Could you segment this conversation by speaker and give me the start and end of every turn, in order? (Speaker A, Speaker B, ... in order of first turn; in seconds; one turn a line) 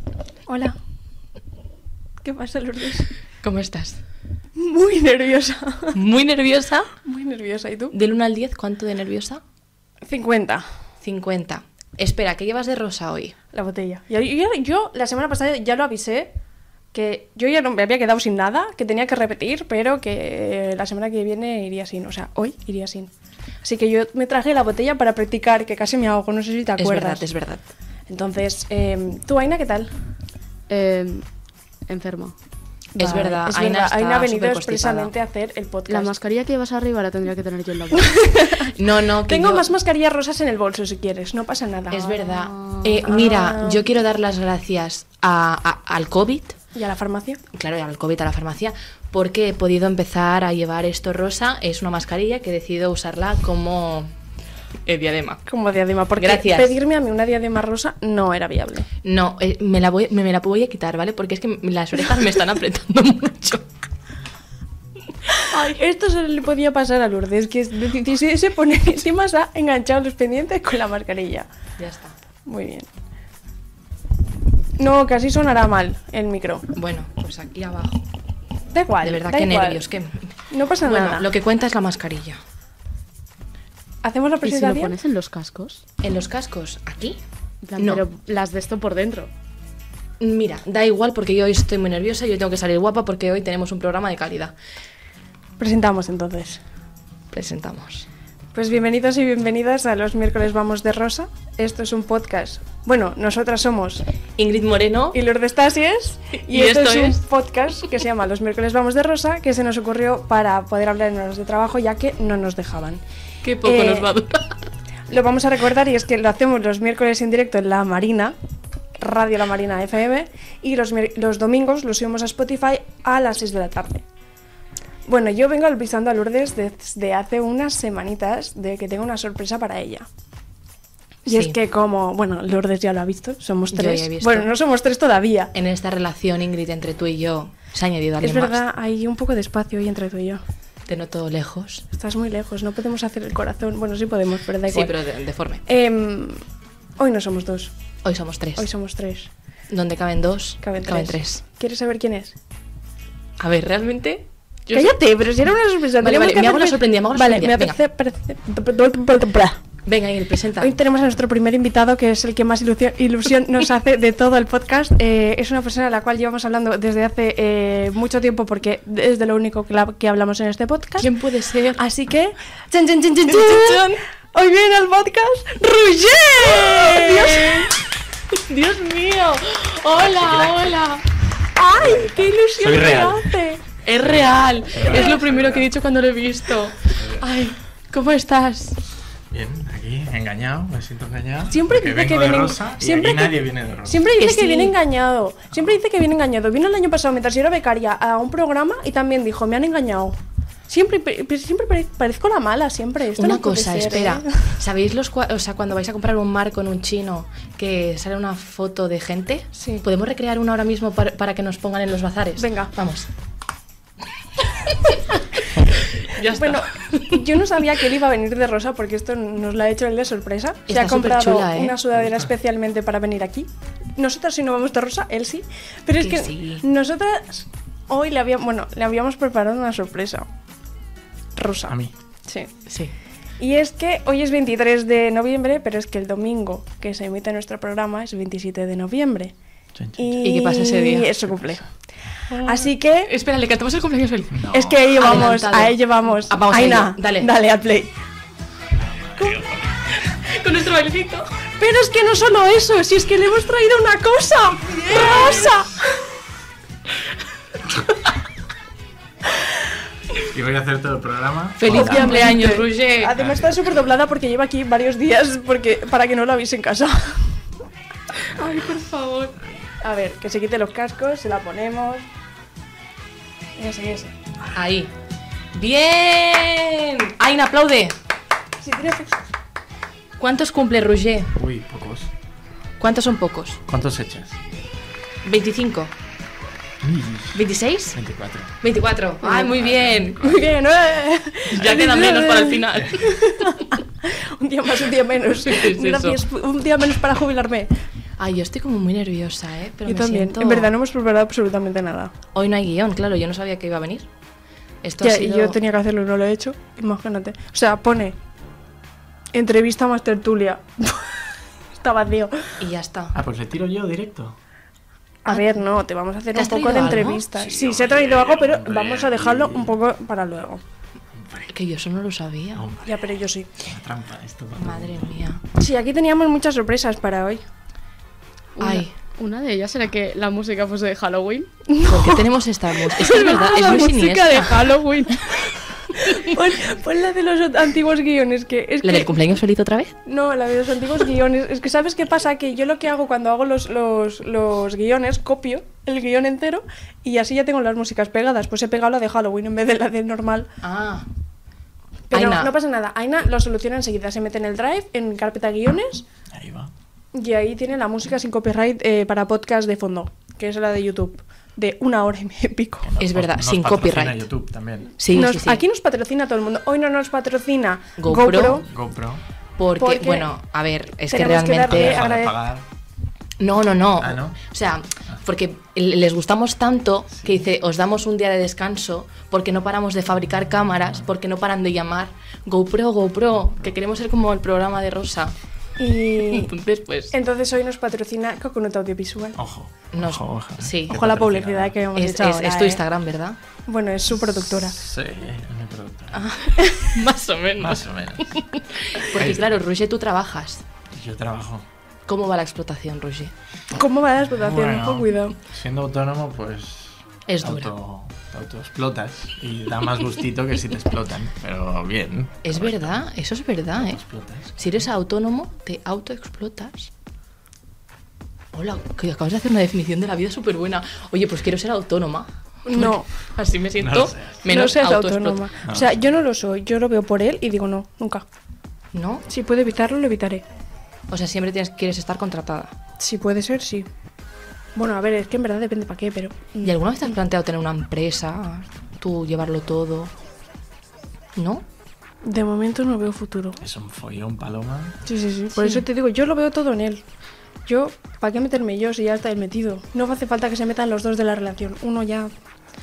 Speaker A: 0.5-0.8
Speaker A: 2.2-3.1
Speaker B: 3.4-4.0
Speaker A: 4.6-6.0
Speaker B: 5.9-6.9
Speaker A: 7.0-7.9
Speaker B: 7.9-9.4
Speaker A: 10.0-10.7
Speaker B: 11.0-13.4
Speaker A: 13.5-16.3
Speaker A: 16.9-23.1
Speaker A: 23.6-27.3
Speaker B: 26.8-27.7
Speaker A: 28.1-29.9
Speaker C: 30.7-31.3
Speaker C: 31.9-32.4
Speaker A: 33.0-36.2
Speaker B: 33.0-35.1
Speaker C: 35.9-38.3
Speaker A: 37.9-38.8
Speaker B: 38.7-39.7
Speaker A: 39.3-42.2
Speaker B: 41.9-46.6
Speaker C: 42.3-42.9
Speaker A: 42.9-43.9
Speaker A: 46.7-47.4
Speaker B: 47.5-54.1
Speaker B: 54.9-55.4
Speaker A: 55.5-58.9
Speaker B: 56.2-56.7
Speaker B: 59.0-63.7
Speaker A: 65.4-71.5
Speaker B: 71.8-72.2
Speaker A: 72.5-72.9
Speaker A: 74.8-76.7
Speaker B: 76.7-78.0
Speaker A: 78.7-79.9
Speaker B: 79.0-82.4
Speaker A: 80.5-81.3
Speaker A: 84.0-85.0
Speaker C: 84.4-85.8
Speaker B: 86.0-87.2
Speaker C: 87.6-89.3
Speaker B: 87.8-88.0
Speaker B: 90.2-94.5
Speaker A: 95.6-96.6
Speaker B: 97.3-98.1
Speaker A: 98.5-104.0
Speaker B: 104.4-105.2
Speaker A: 105.1-113.0
Speaker B: 106.5-107.2
Speaker B: 113.4-114.7
Speaker A: 113.6-114.1
Speaker A: 115.1-118.4
Speaker A: 119.0-124.0
Speaker A: 125.0-130.1
Speaker A: 131.3-135.5
Speaker B: 131.3-131.6
Speaker B: 133.7-134.5
Speaker B: 135.5-138.6
Speaker A: 138.2-140.4
Speaker B: 140.9-141.8
Speaker A: 141.9-145.0
Speaker B: 144.7-145.6
Speaker A: 145.7-146.4
Speaker A: 147.0-147.7
Speaker B: 148.0-148.7
Speaker A: 148.6-149.3
Speaker B: 149.7-151.4
Speaker A: 150.6-152.4
Speaker B: 153.4-154.9
Speaker A: 154.7-159.6
Speaker B: 156.0-157.8
Speaker B: 159.8-160.8
Speaker A: 160.6-171.1
Speaker B: 171.0-171.8
Speaker A: 171.8-177.7
Speaker B: 173.3-174.0
Speaker B: 176.4-177.8
Speaker B: 178.3-181.2
Speaker D: 179.9-180.8
Speaker A: 181.6-183.6
Speaker D: 181.8-183.3
Speaker B: 182.7-183.0
Speaker B: 183.8-188.8
Speaker D: 184.0-185.7
Speaker D: 186.9-187.3
Speaker D: 189.3-194.1
Speaker A: 191.5-204.5
Speaker B: 194.2-194.8
Speaker B: 203.2-213.1
Speaker A: 209.6-209.8
Speaker A: 212.4-212.7
Speaker B: 215.6-217.3
Speaker A: 216.2-230.3
Speaker B: 220.7-221.8
Speaker D: 222.0-222.3
Speaker B: 226.0-226.6
Speaker A: 231.4-232.5
Speaker D: 231.7-231.9
Speaker B: 232.7-232.9
Speaker A: 233.4-239.3
Speaker D: 239.8-240.3
Speaker A: 240.0-241.7
Speaker B: 240.2-241.2
Speaker B: 242.3-247.3
Speaker A: 242.3-243.1
Speaker D: 244.3-244.9
Speaker A: 244.5-247.9
Speaker D: 248.7-249.9
Speaker B: 250.1-251.4
Speaker A: 251.6-255.9
Speaker D: 254.9-255.6
Speaker B: 254.9-255.5
Speaker D: 260.2-262.4
Speaker B: 261.6-263.2
Speaker A: 261.7-267.3
Speaker D: 263.2-263.7
Speaker A: 268.4-272.1
Speaker B: 268.5-269.3
Speaker A: 273.6-274.1
Speaker B: 274.5-274.9
Speaker B: 275.5-278.0
Speaker A: 278.6-279.2
Speaker B: 280.2-281.3
Speaker D: 281.4-282.1
Speaker B: 282.8-283.6
Speaker D: 283.7-284.4
Speaker B: 285.2-285.9
Speaker D: 286.8-288.6
Speaker B: 287.3-288.0
Speaker B: 288.6-290.2
Speaker D: 289.3-290.5
Speaker A: 290.2-297.7
Speaker B: 291.5-293.2
Speaker D: 291.6-292.0
Speaker D: 292.8-293.1
Speaker B: 295.4-296.2
Speaker B: 298.2-300.8
Speaker A: 299.9-302.1
Speaker B: 302.3-304.1
Speaker B: 304.8-305.6
Speaker A: 305.0-308.2
Speaker A: 309.3-312.6
Speaker B: 312.6-313.2
Speaker D: 313.1-314.4
Speaker B: 315.3-315.6
Speaker A: 315.3-320.6
Speaker B: 316.3-317.2
Speaker D: 317.3-319.8
Speaker D: 321.1-321.5
Speaker B: 321.5-322.7
Speaker D: 322.6-325.2
Speaker A: 322.9-323.5
Speaker B: 324.6-325.4
Speaker A: 325.5-327.4
Speaker C: 328.6-331.5
Speaker B: 328.6-328.9
Speaker A: 331.7-332.2
Speaker B: 331.8-334.7
Speaker A: 332.9-339.1
Speaker C: 334.4-335.2
Speaker B: 338.8-340.0
Speaker A: 340.1-350.5
Speaker B: 350.6-351.1
Speaker A: 352.1-356.1
Speaker B: 352.1-352.5
Speaker D: 356.3-356.7
Speaker A: 357.1-362.9
Speaker D: 362.8-365.0
Speaker B: 363.0-364.3
Speaker B: 365.0-365.6
Speaker A: 365.1-368.7
Speaker B: 368.0-368.6
Speaker D: 368.6-369.2
Speaker B: 369.6-372.1
Speaker A: 369.8-370.3
Speaker A: 371.1-372.4
Speaker D: 371.7-372.7
Speaker B: 373.4-385.4
Speaker D: 374.0-374.4
Speaker D: 377.2-377.5
Speaker A: 385.8-386.5
Speaker B: 386.2-387.1
Speaker A: 387.1-389.4
Speaker D: 389.4-391.8
Speaker B: 389.9-391.1
Speaker A: 390.9-392.8
Speaker B: 391.9-393.4
Speaker A: 393.7-394.8
Speaker D: 394.1-396.3
Speaker B: 396.1-400.6
Speaker D: 397.6-398.4
Speaker D: 399.0-399.5
Speaker D: 400.9-401.7
Speaker B: 402.1-403.3
Speaker A: 403.7-405.4
Speaker D: 404.3-413.1
Speaker B: 407.3-407.7
Speaker B: 412.4-414.0
Speaker D: 413.8-414.9
Speaker B: 414.6-416.9
Speaker B: 418.5-425.4
Speaker A: 422.7-423.1
Speaker D: 423.8-424.4
Speaker A: 424.5-428.2
Speaker D: 425.6-426.1
Speaker B: 428.9-429.3
Speaker A: 429.3-430.4
Speaker B: 431.1-432.8
Speaker A: 433.0-433.9
Speaker A: 434.8-436.8
Speaker B: 436.6-440.1
Speaker B: 441.4-441.7
Speaker A: 442.2-443.6
Speaker D: 443.6-445.0
Speaker A: 445.1-447.1
Speaker B: 445.6-445.9
Speaker A: 447.7-452.3